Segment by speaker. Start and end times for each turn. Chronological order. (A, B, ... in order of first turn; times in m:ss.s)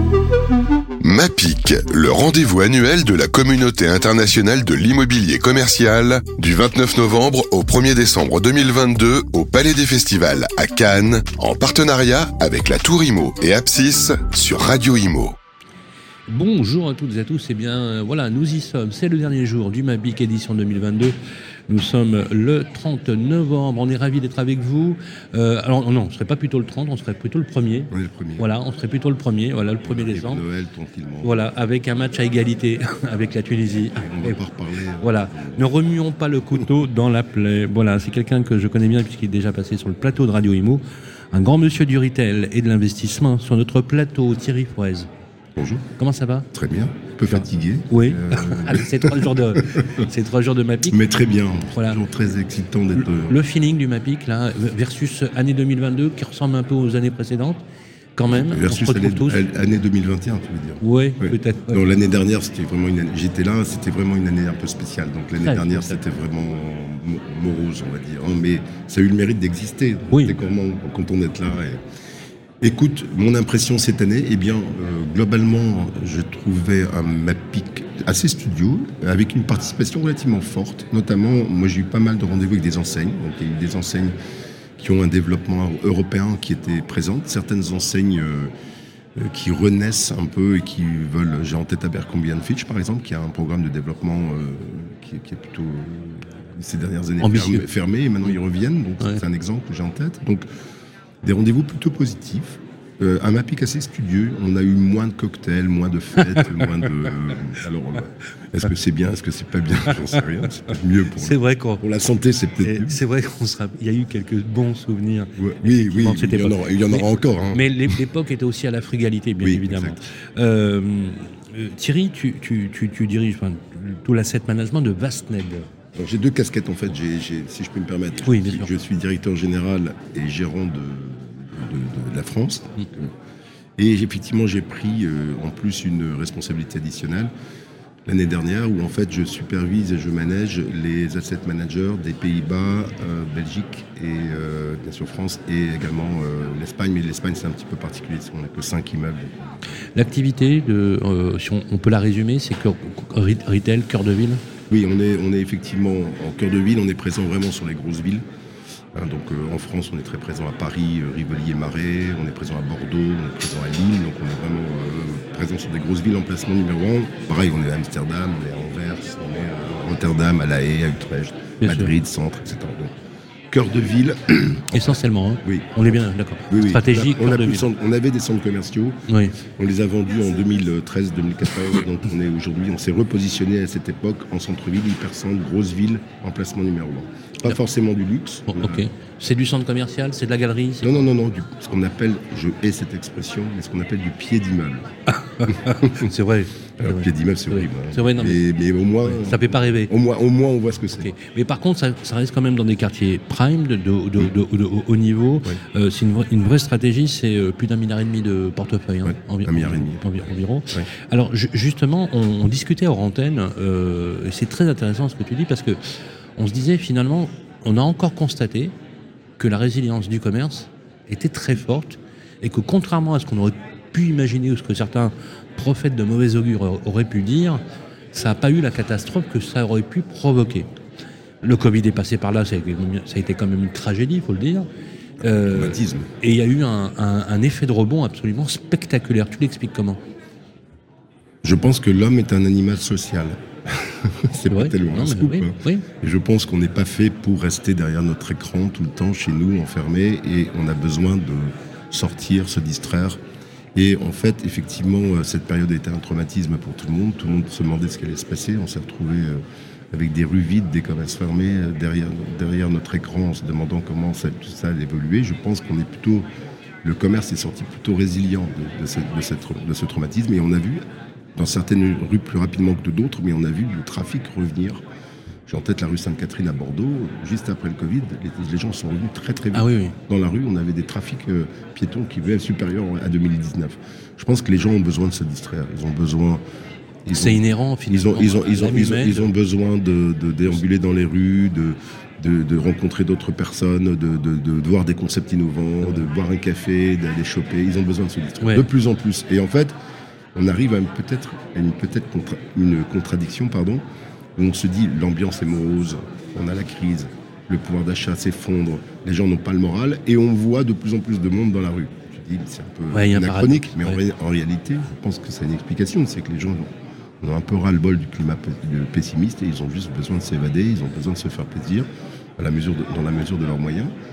0:01.0-0:15.4 A
0:16.3-0:21.2 B
0:21.7-0:30.4 B
0:27.9-0:28.5 C
0:29.8-0:31.4 C
0:31.2-0:34.4 B
0:34.0-0:35.6 C
0:35.0-0:45.1 B
0:45.6-0:45.8 C
0:46.0-0:46.5 B
0:46.5-0:49.9 C
0:47.3-0:51.0 B
0:50.9-0:53.4 C
0:51.7-0:52.0 B
0:53.0-0:57.6 B
0:58.2-0:59.5 B
0:58.3-1:11.8 C
1:00.8-1:01.8 B
1:05.4-1:06.0 B
1:12.6-1:24.1 C
1:24.8-1:28.5 C
1:29.2-1:40.4 C
1:37.2-1:37.6 B
1:41.2-1:53.0 C
1:51.2-1:51.8 B
1:52.6-2:05.7 B
1:55.4-1:57.6 C
1:59.4-2:00.0 C
2:05.9-2:13.1 C
2:08.2-2:08.7 B
2:13.8-2:17.3 C
2:18.0-2:29.4 C
2:30.0-2:34.4 B
2:34.7-2:38.2 C
2:38.9-2:52.9 C
2:51.6-2:51.9 B
2:53.5-2:55.7 C
2:54.7-2:57.6 B
2:56.5-3:08.8 C
2:59.1-2:59.3 B
3:08.5-3:11.0 B
3:10.8-3:14.9 C
3:15.1-3:18.4 B
3:15.4-3:16.1 C
3:16.8-3:21.1 C
3:19.0-3:19.9 B
3:20.9-3:38.7 B
3:29.0-3:30.9 C
3:39.4-3:47.6 B
3:48.1-3:50.7 B
3:51.4-3:54.7 B
3:55.2-4:00.0 B
3:55.4-3:56.1 C
4:01.4-4:13.2 C
4:04.5-4:05.8 B
4:13.7-4:26.2 C
4:26.8-4:30.8 C
4:31.4-4:34.8 C
4:35.5-4:46.4 C
4:39.5-4:40.0 B
4:47.0-4:59.7 C
4:47.1-4:49.3 B
4:58.4-4:58.7 B
5:00.3-5:03.8 C
5:04.4-5:16.7 C
5:12.9-5:14.0 B
5:17.2-5:21.9 C
5:22.4-5:23.9 C